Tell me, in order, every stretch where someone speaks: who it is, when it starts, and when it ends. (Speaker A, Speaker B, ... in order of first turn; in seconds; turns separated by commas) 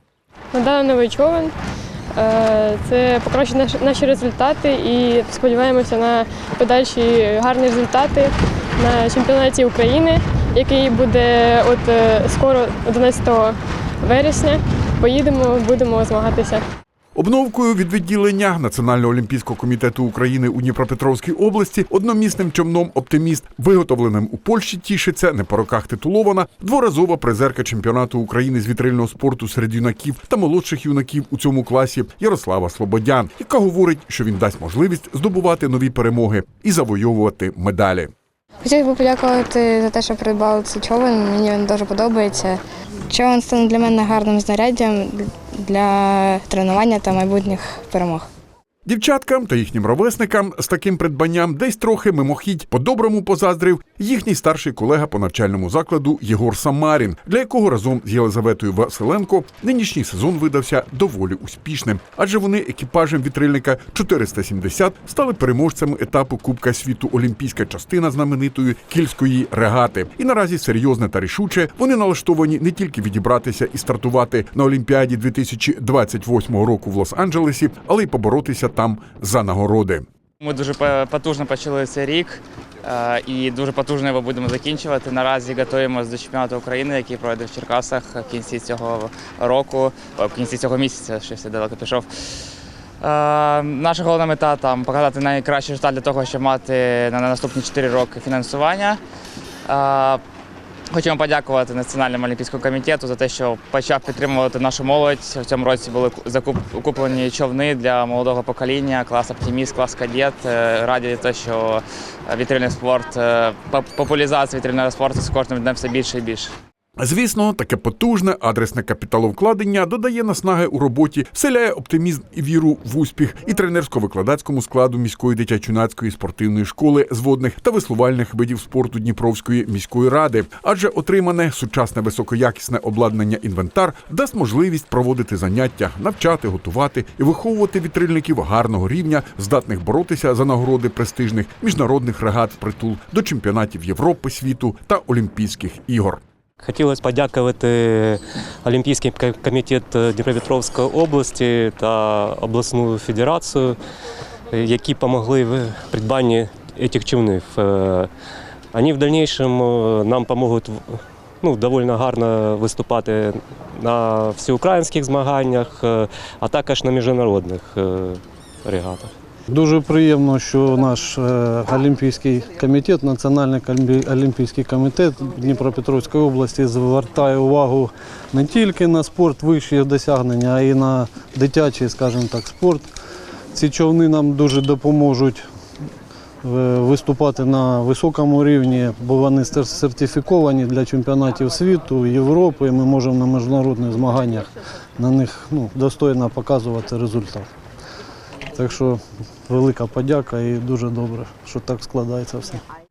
Speaker A: 0.5-1.5, Speaker A: 2.2-16.6, Speaker B: 17.2-38.1, Speaker C: 38.6-48.3, Speaker B: 48.9-80.0, Speaker D: 80.4-92.1, Speaker D: 93.0-99.0, Speaker D: 99.7-100.2, Speaker D: 100.9-116.5, Speaker B: 117.0-146.2, Speaker E: 146.6-153.8, Speaker E: 154.5-158.1, Speaker E: 158.7-169.1, Speaker F: 169.5-182.9, Speaker F: 183.5-185.4, Speaker F: 186.4-197.5, Speaker F: 198.6-202.6